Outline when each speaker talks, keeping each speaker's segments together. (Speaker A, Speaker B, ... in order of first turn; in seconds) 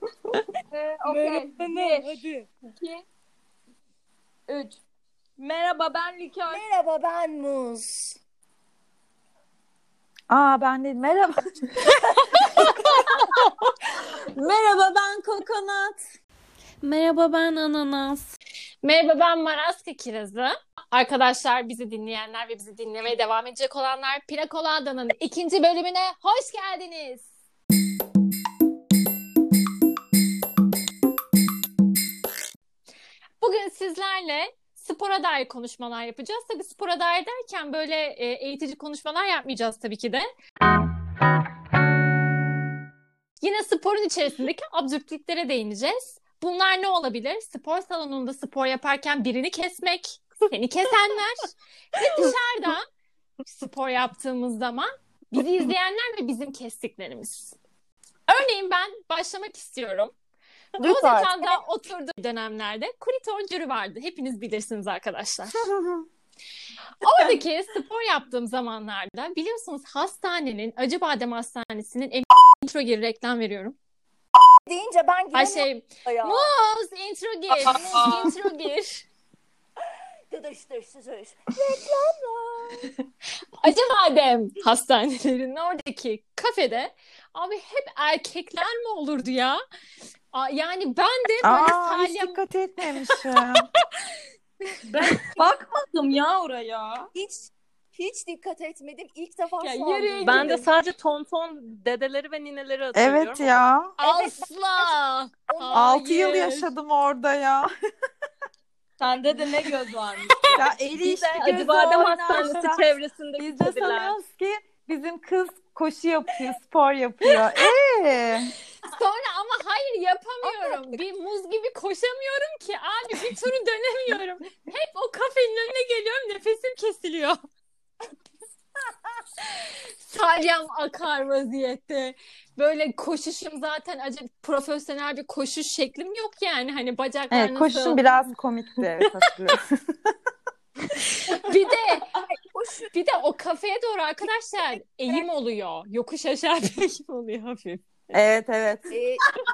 Speaker A: 0.7-3.0, 4.5-4.8, 5.4-6.6, 77.6-78.3, 94.9-97.1, 100.1-100.5, 109.0-112.5
Speaker B: 1.1-2.5, 6.5-8.2, 60.8-61.6, 74.7-76.5, 80.3-82.9, 97.1-100.5, 104.0-104.9, 105.5-106.0, 120.5-120.8, 142.2-142.9, 148.9-149.2
Speaker C: 10.3-11.4, 14.4-16.0, 65.8-66.0, 91.4-93.7, 102.9-103.9, 105.7-107.7, 110.5-112.8, 113.4-118.5, 137.3-140.1, 148.1-148.9
Speaker D: 16.8-18.3, 100.2-103.6, 111.3-114.2
Speaker E: 18.8-27.3, 33.4-40.2, 43.4-52.9, 53.4-57.5, 58.3-60.1, 60.8-65.6, 67.0-73.8, 75.3-79.0, 83.6-89.6, 90.3-92.4, 99.6-100.6, 104.0-106.7, 118.8-127.4, 129.5-138.2, 141.2-142.1, 142.9-148.1